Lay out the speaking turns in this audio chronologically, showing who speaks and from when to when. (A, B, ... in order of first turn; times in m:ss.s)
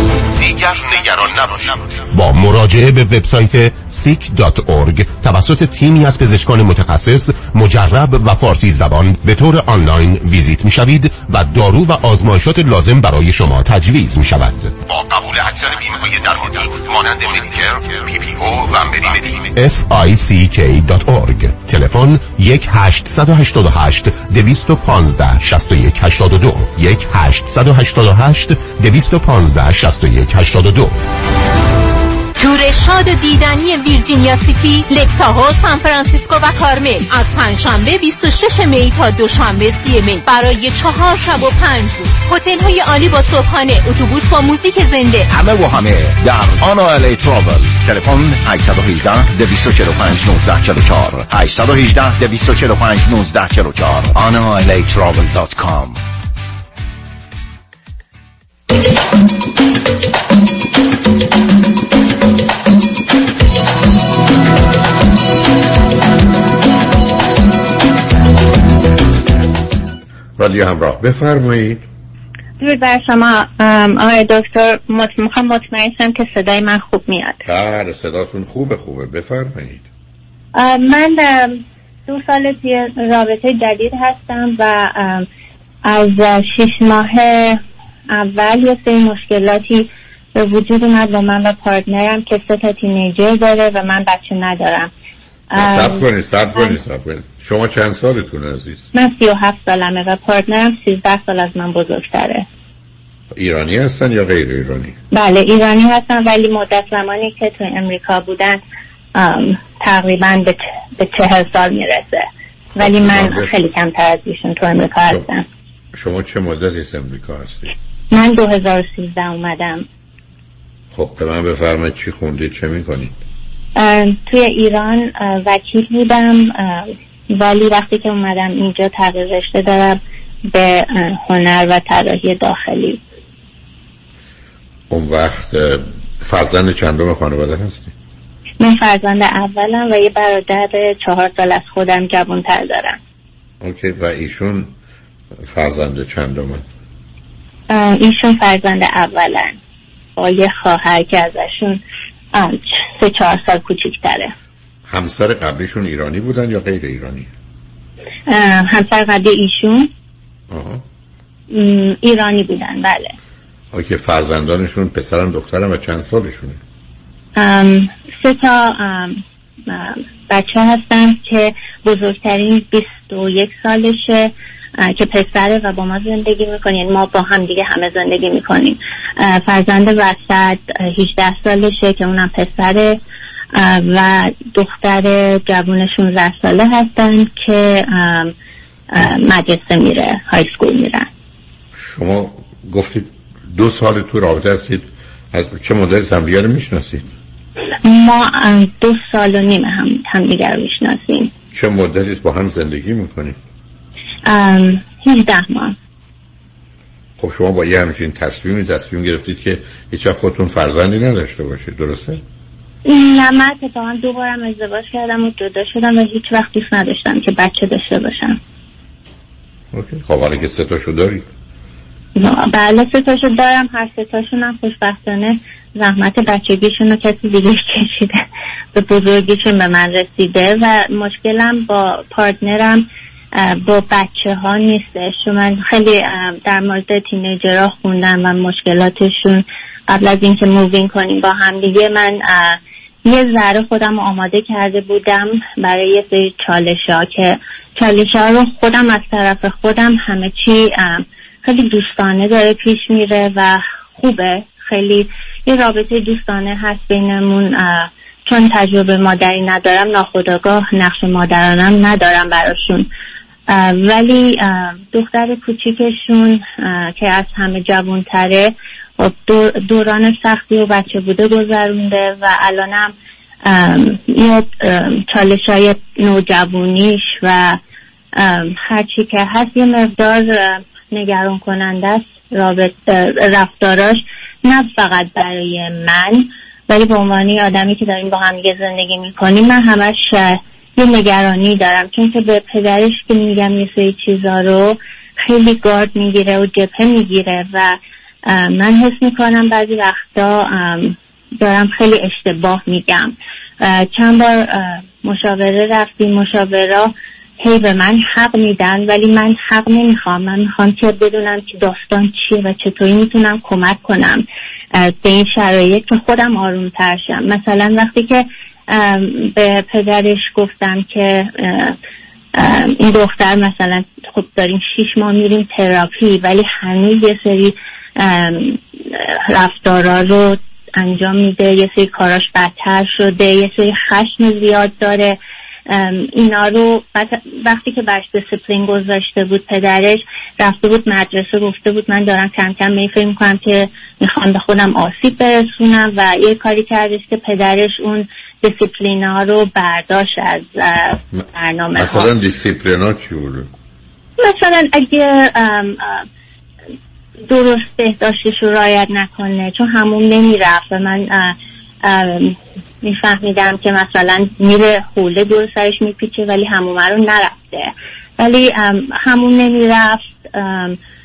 0:00.4-0:30.9 A
0:32.4-0:45.3 B
0:45.3-0:56.0 C
1:10.4-1:11.8 D
1:12.6-1:17.4 E
1:17.4-1:19.8 D
1:20.5-1:25.2 E
1:25.8-1:27.6 E
1:28.1-1:34.9 E
1:35.5-1:36.0 E
1:35.6-1:38.8 D
1:38.9-1:42.4 E
1:43.3-1:45.0 D
1:45.1-1:48.6 E
1:49.1-1:52.2 E
1:52.7-1:53.5 D
1:52.8-1:55.4 E
1:55.9-1:57.7 D
1:58.1-1:59.8 E
2:00.9-2:03.1 D
2:03.8-2:13.0 E
2:14.9-2:17.9 D
2:18.6-2:23.0 E
2:23.6-2:24.7 D
2:25.4-2:26.6 D
2:27.7-2:29.6 E
2:30.2-2:31.8 E
2:32.3-2:34.3 E
2:34.9-2:37.3 D
2:38.3-2:39.9 E
2:40.5-2:40.8 D
2:41.5-2:43.1 E
2:43.7-2:46.6 D
2:47.4-3:03.0 E
3:03.5-3:08.3 E
3:08.9-3:11.1 E
3:11.7-3:17.1 D
3:17.8-3:21.3 E
3:21.5-3:23.4 D
3:24.2-3:25.7 E
3:27.2-3:32.2 D
3:32.8-3:38.4 E
3:39.7-3:41.3 D
3:42.2-3:48.2 E
3:48.7-4:22.8 E
4:23.5-4:32.9 E
4:33.4-4:37.6 E
4:38.2-5:21.7 E
5:22.4-5:35.2 E
5:35.7-5:52.1 E
5:51.7-5:53.5 D
5:54.2-5:56.0 E
5:57.3-6:10.8 E